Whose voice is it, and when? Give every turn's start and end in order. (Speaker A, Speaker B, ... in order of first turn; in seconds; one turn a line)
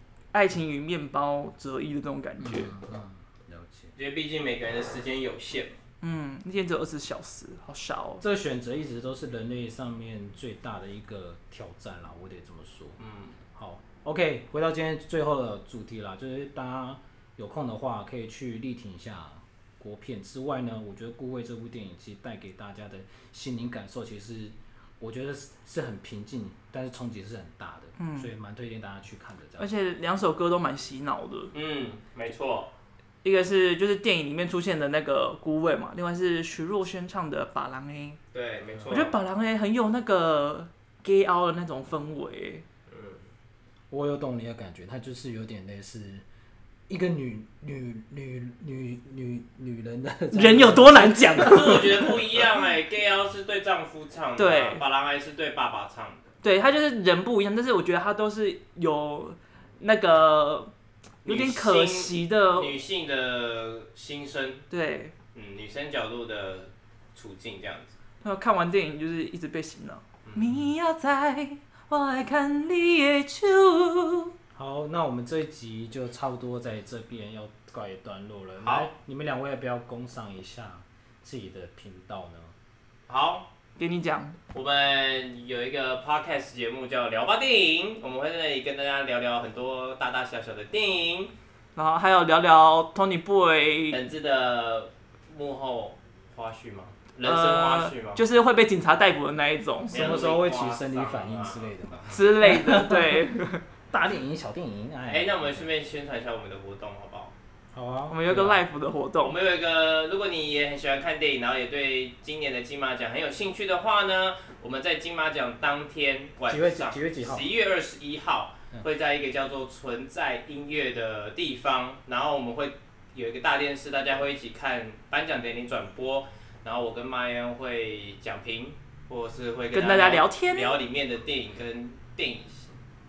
Speaker A: 0.3-2.8
Speaker B: 2.4-3.9
Speaker C: 4.0-5.8
Speaker A: 6.0-8.2
Speaker B: 8.2-13.0
Speaker C: 13.0-13.4
Speaker B: 13.5-29.7
Speaker A: 28.0-28.3
Speaker A: 29.6-31.5
Speaker C: 31.5-32.7
Speaker A: 33.2-38.2
Speaker C: 38.3-39.1
Speaker A: 38.9-42.6
Speaker C: 42.9-43.2
Speaker B: 43.9-46.2
Speaker B: 46.9-52.2
Speaker A: 50.3-52.1
Speaker C: 51.4-56.4
Speaker A: 54.4-54.8
Speaker A: 56.4-60.7
Speaker A: 61.2-62.8
Speaker C: 61.2-64.7
Speaker A: 64.7-65.1
Speaker C: 65.3-68.0
Speaker A: 68.2-74.3
Speaker C: 70.2-70.5
Speaker B: 74.5-82.5
Speaker C: 78.6-78.9
Speaker C: 83.1-83.5
Speaker A: 83.8-84.4
Speaker C: 84.5-91.3
Speaker A: 91.8-94.0
Speaker C: 93.9-98.2
Speaker A: 97.2-100.2
Speaker C: 99.9-102.1
Speaker B: 99.9-103.2
Speaker A: 102.1-103.6
Speaker B: 103.9-105.7
Speaker C: 105.1-107.3
Speaker B: 107.7-108.6
Speaker A: 108.1-109.4
Speaker C: 109.2-132.8
Speaker B: 116.5-117.5
Speaker A: 129.7-130.8